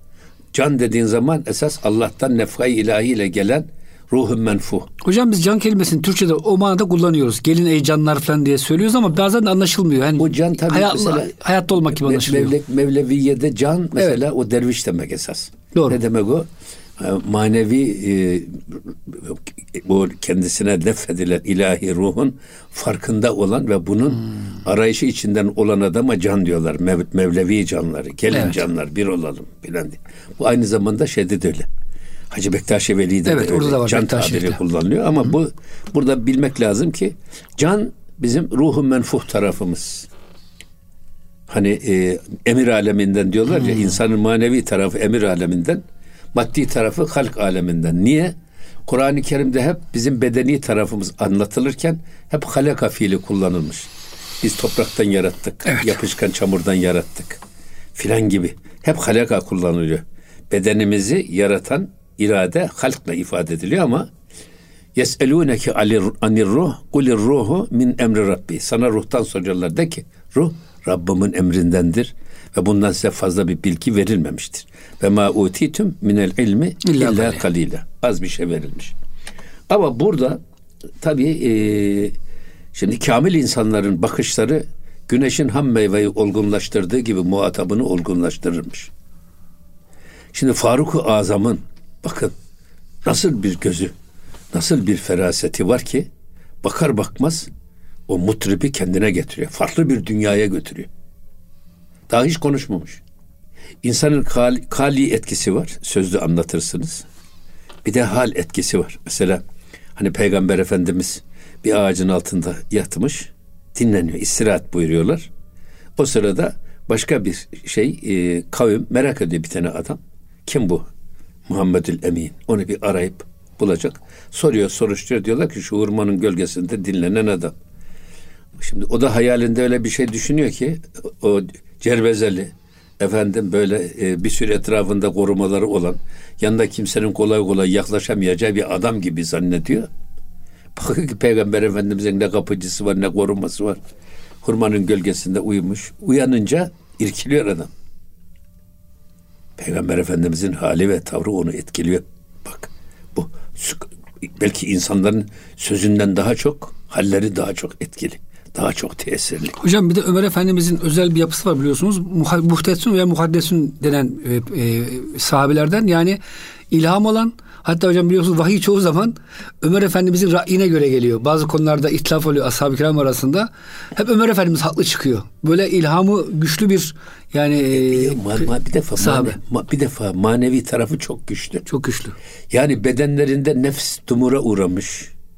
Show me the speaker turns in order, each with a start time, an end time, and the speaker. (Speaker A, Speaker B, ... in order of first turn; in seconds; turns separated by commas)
Speaker A: 0.5-4.9, Speaker B: 5.0-12.6, Speaker A: 10.2-31.7, Speaker B: 15.7-16.0, Speaker B: 28.3-28.6, Speaker A: 32.3-40.1, Speaker B: 33.3-34.6, Speaker A: 41.5-45.8, Speaker A: 46.3-48.3, Speaker A: 48.9-53.9, Speaker A: 54.4-57.4, Speaker B: 55.7-56.0, Speaker A: 58.0-64.1, Speaker A: 65.0-79.0, Speaker B: 76.8-77.4, Speaker A: 79.7-80.4, Speaker A: 81.0-82.2, Speaker A: 82.7-88.9, Speaker A: 90.3-92.3, Speaker A: 93.0-93.9, Speaker A: 94.5-96.1, Speaker A: 96.6-97.5, Speaker A: 98.1-100.9, Speaker A: 102.1-103.0, Speaker A: 103.8-107.1, Speaker A: 107.8-109.4, Speaker A: 110.0-115.3, Speaker A: 116.0-120.9, Speaker A: 121.5-127.5, Speaker A: 128.6-139.9, Speaker A: 140.8-143.8, Speaker A: 144.4-147.7, Speaker A: 149.6-159.6, Speaker B: 159.6-166.2, Speaker B: 166.7-179.4, Speaker A: 177.7-181.7, Speaker B: 181.7-182.2, Speaker A: 182.5-185.1